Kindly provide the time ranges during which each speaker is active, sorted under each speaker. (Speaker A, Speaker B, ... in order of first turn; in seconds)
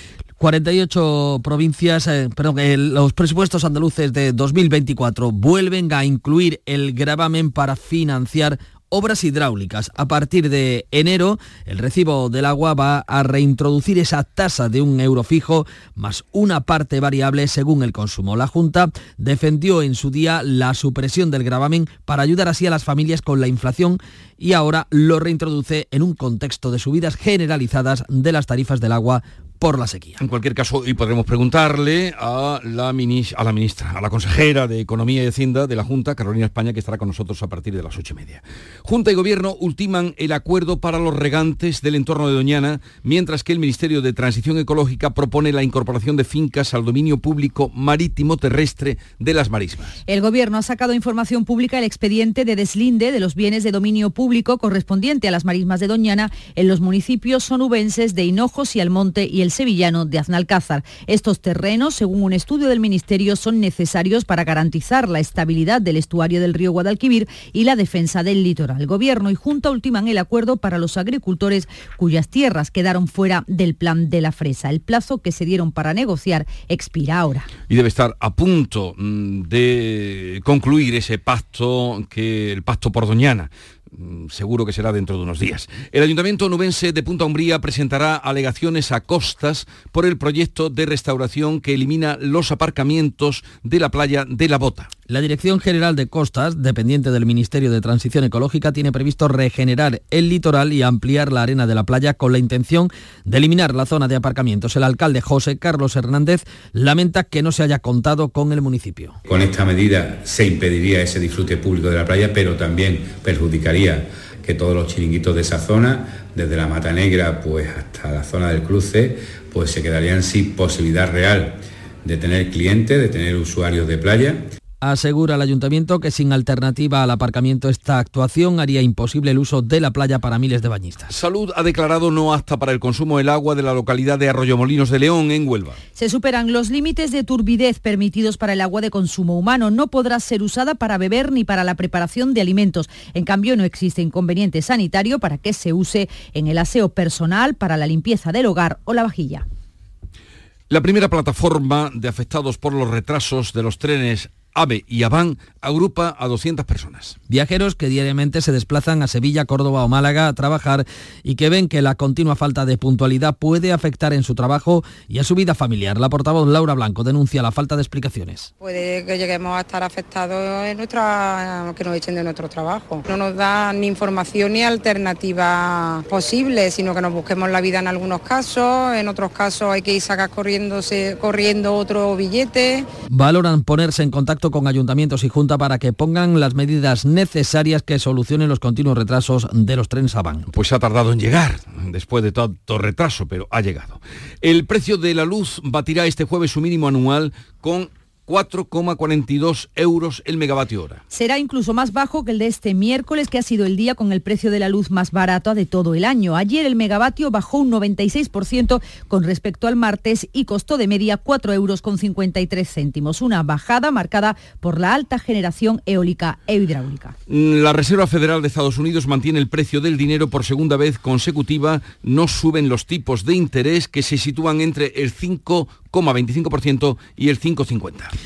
Speaker A: 0.4-30.2, 95.1-109.2, 124.8-131.1, 157.3-168.5, 183.1-190.5
Speaker B: 30.2-50.0, 77.7-94.9, 131.1-135.8, 150.7-157.2, 190.5-201.0, 217.3-228.1
Speaker C: 50.1-77.5, 135.9-149.4, 201.1-217.2
Speaker D: 109.3-124.5
Speaker E: 168.7-170.1, 171.3-173.9, 176.1-178.5, 179.1-181.7